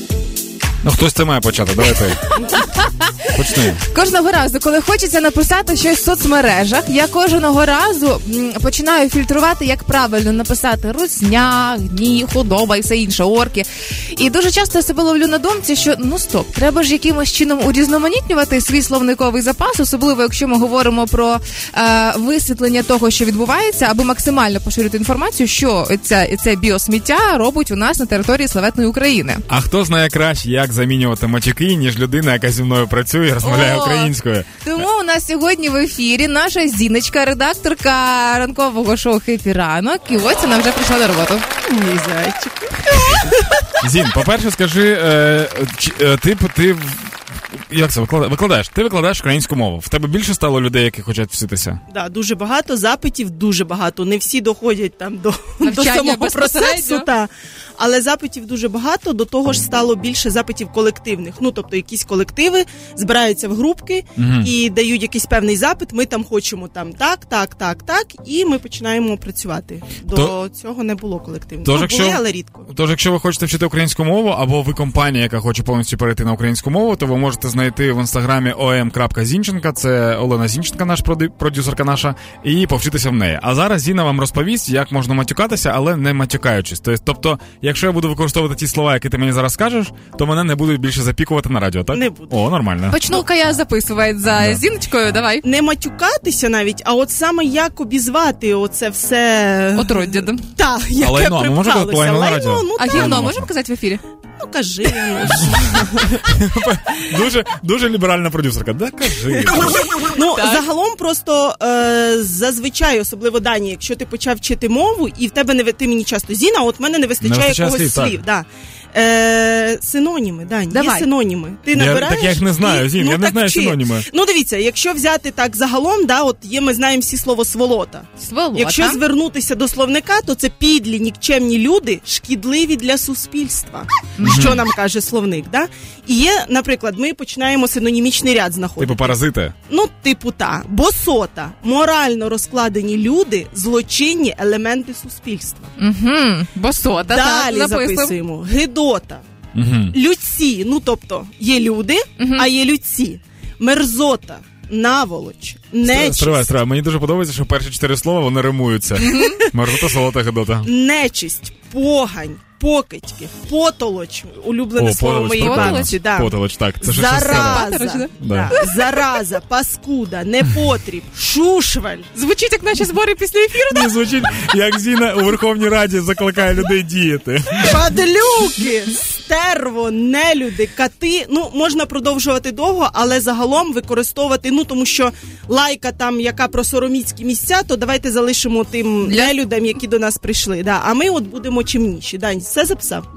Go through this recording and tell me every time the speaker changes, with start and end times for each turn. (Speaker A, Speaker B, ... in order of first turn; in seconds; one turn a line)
Speaker A: 0.8-2.2
Speaker B: 2.3-29.4
Speaker A: 3.3-3.8
Speaker A: 29.5-34.9
Speaker B: 33.4-41.5
Speaker C: 41.6-43.3
Speaker A: 43.8-51.8
Speaker C: 51.9-72.7
Speaker B: 55.6-57.1
Speaker A: 64.2-64.5
Speaker A: 71.7-93.2
Speaker C: 91.9-92.3
Speaker B: 92.9-95.5
Speaker A: 94.3-94.6
Speaker C: 95.4-103.4
Speaker B: 99.8-100.4
Speaker A: 101.0-103.5
Speaker B: 102.8-104.0
Speaker C: 104.4-106.2
Speaker A: 106.1-109.8
Speaker C: 110.0-145.7
Speaker B: 110.3-110.7
Speaker A: 117.2-118.2
Speaker B: 120.7-121.1
Speaker A: 121.7-124.1
Speaker B: 128.2-129.0
Speaker B: 134.2-134.5
Speaker A: 134.2-134.6
Speaker A: 138.8-139.6
Speaker B: 145.8-148.2
Speaker C: 147.1-149.2
Speaker A: 149.5-150.0
Speaker C: 149.9-156.5
Speaker B: 152.2-152.5
Speaker A: 155.8-160.7
Speaker B: 159.0-159.4
Speaker C: 159.1-159.5
Speaker C: 160.6-172.1
Speaker A: 164.8-167.7
Speaker B: 165.4-166.0
Speaker B: 167.4-169.3
Speaker A: 168.2-168.6
Speaker B: 172.1-174.0
Speaker A: 173.7-177.9
Speaker C: 177.6-193.1
Speaker B: 189.0-189.4